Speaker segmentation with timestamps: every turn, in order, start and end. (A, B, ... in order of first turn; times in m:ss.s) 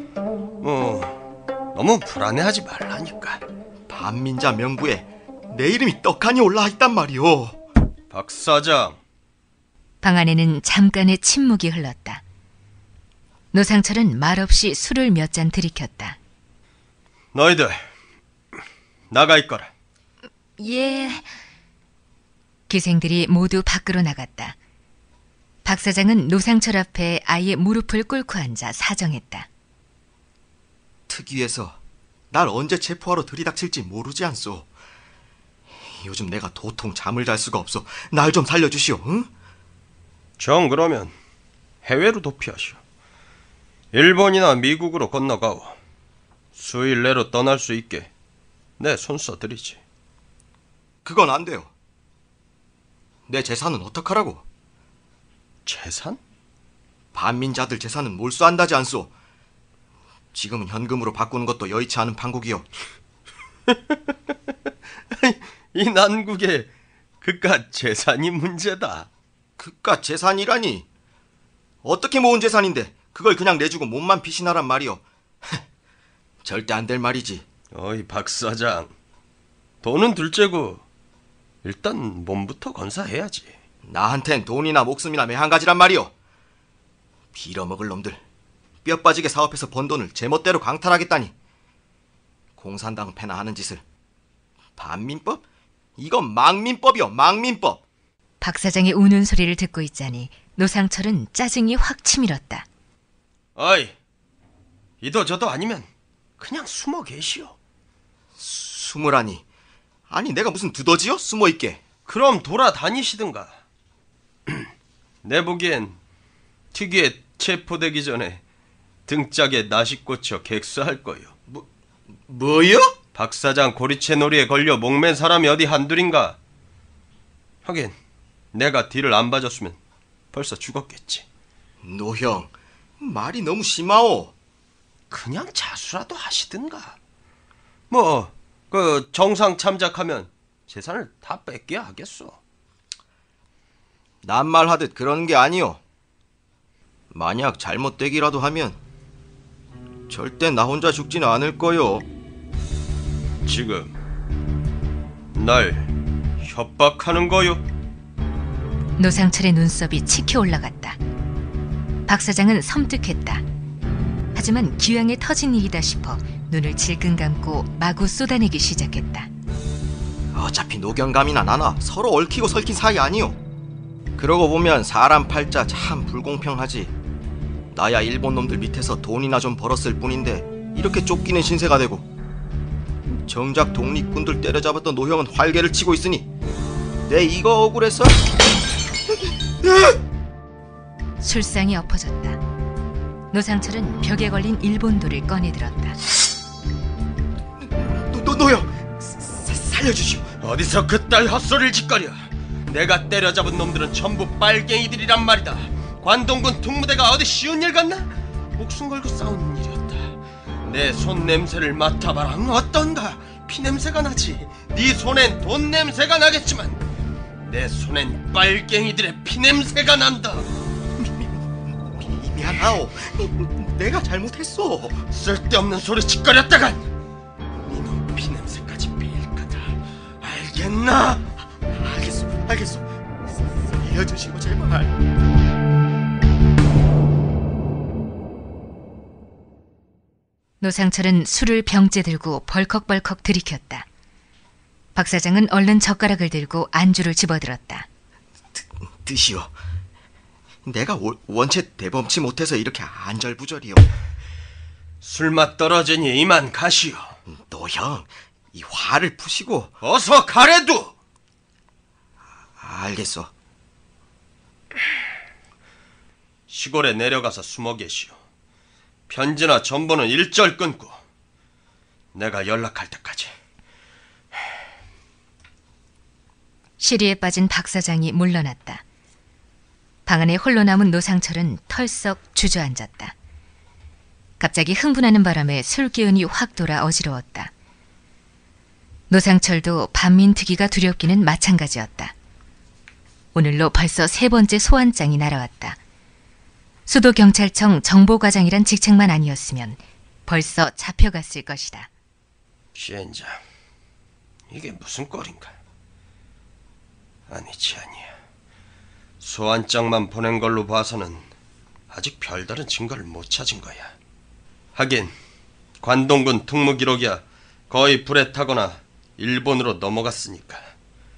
0:00.6-0:01.2 A
0:01.7-0:03.4 A
0:03.9-0:07.6 B
0:08.1-0:09.0 A
0:10.0-0:12.2 C
0:13.5-0:16.2 C
0:17.3-0:17.8 A
0:19.1-0:19.7 A
0:20.6-0:21.3 C
0:22.7-0:24.6 C
0:25.6-0:29.5 C
0:31.1-0:31.8 B
0:32.3-0:34.7 B
0:35.8-0:39.3 B
0:40.4-0:41.1 A
0:41.8-0:42.8 A
0:43.9-0:45.8 A
0:46.6-0:48.1 A
0:48.8-0:49.8 A
0:51.0-0:51.7 B
0:53.3-0:54.4 B
0:55.6-0:56.2 A
0:57.1-0:59.1 B
1:00.3-1:02.7 B
1:05.2-1:06.7 A
1:07.2-1:09.1 A
1:09.6-1:10.9 B
1:11.8-1:15.6 B
1:16.4-1:17.4 B
1:17.7-1:18.9 A
1:19.8-1:20.8 A
1:21.6-1:23.5 A
1:23.8-1:26.1 B
1:27.3-1:28.2 B
1:28.8-1:31.3 B
1:32.6-1:33.8 B
1:34.8-1:35.4 B
1:36.0-1:37.8 B
1:38.4-1:42.6 C
1:43.6-1:43.9 A
1:45.0-1:45.9 A
1:46.4-1:47.5 A
1:48.4-1:49.4 B
1:50.1-1:51.8 B
1:52.0-1:53.6 A
1:55.2-1:56.0 A
1:56.7-1:58.4 A
1:59.1-2:01.3 A
2:01.5-2:03.0 B
2:03.1-2:06.4 A
2:07.6-2:08.0 A
2:08.5-2:09.8 A
2:10.3-2:11.2 A
2:11.8-2:14.3 B
2:15.1-2:17.0 A
2:17.9-2:22.4 A
2:24.2-2:25.8 B
2:27.1-2:28.8 B
2:30.1-2:32.1 B
2:33.4-2:33.9 A
2:35.3-2:37.6 A
2:39.0-2:41.0 C
2:42.1-2:43.4 C
2:44.3-2:49.3 C
2:50.3-2:53.4 B
2:54.2-2:56.9 B
2:57.7-3:02.1 B
3:03.1-3:06.3 B
3:07.0-3:08.2 B
3:09.6-3:10.0 B
3:11.2-3:12.4 C
3:13.3-3:16.0 C
3:17.6-3:20.3 B
3:20.4-3:36.8 A
3:37.4-3:40.5 A
3:41.0-3:45.0 B
3:45.1-3:46.8 A
3:47.6-3:51.4 A
3:51.7-3:54.9 B
4:00.6-4:03.9 C
4:04.9-4:07.9 C
4:08.5-4:09.5 B
4:10.6-4:13.9 B
4:15.0-4:17.2 A
4:17.3-4:19.7 B
4:19.8-4:20.9 A
4:22.6-4:23.3 B
4:26.5-4:28.2 A
4:29.1-4:31.0 A
4:32.1-4:33.3 A
4:36.8-4:38.8 C
4:40.0-4:43.1 C
4:44.4-4:47.5 C
4:49.1-4:52.1 C
4:53.3-4:55.8 C
4:56.9-5:01.9 C
5:02.7-5:03.4 A
5:04.5-5:05.5 A
5:07.3-5:08.1 A
5:09.2-5:11.2 A
5:11.9-5:13.9 A
5:14.7-5:15.1 A
5:15.8-5:20.7 A